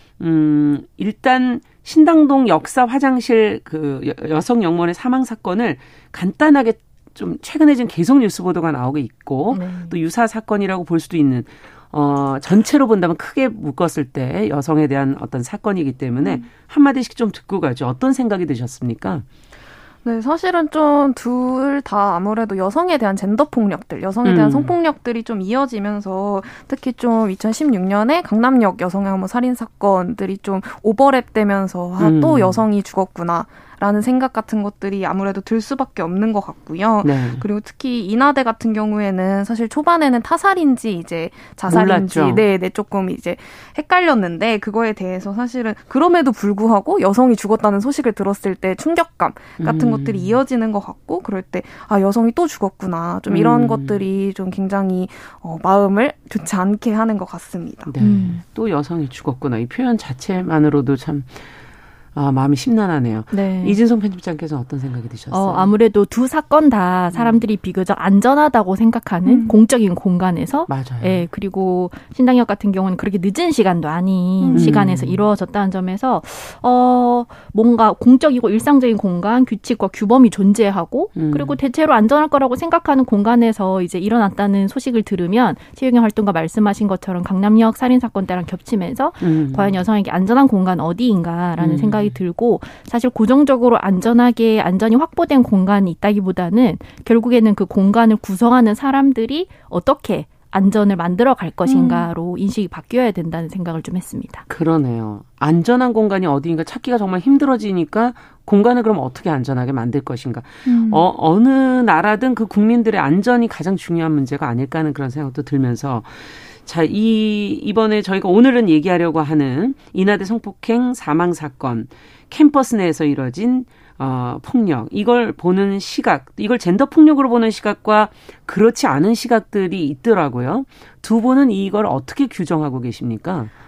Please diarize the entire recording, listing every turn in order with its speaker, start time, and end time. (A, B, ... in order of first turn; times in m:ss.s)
0:00.2-0:19.2 A
0:09.5-0:10.0 B
0:20.0-0:57.9 C
0:24.2-0:24.7 A
0:32.0-0:32.7 A
0:37.0-0:37.4 A
0:41.7-0:42.4 A
0:49.6-0:50.4 A
0:53.3-0:54.0 A
0:57.9-1:01.5 A
0:58.0-0:58.4 B
1:02.2-1:05.7 A
1:03.3-1:03.8 B
1:05.3-1:44.4 B
1:07.1-1:07.4 A
1:10.7-1:11.3 A
1:14.4-1:14.7 C
1:14.6-1:15.2 A
1:21.2-1:21.6 A
1:29.2-1:29.8 A
1:31.6-1:32.2 A
1:44.5-2:13.5 A
1:50.7-1:51.0 C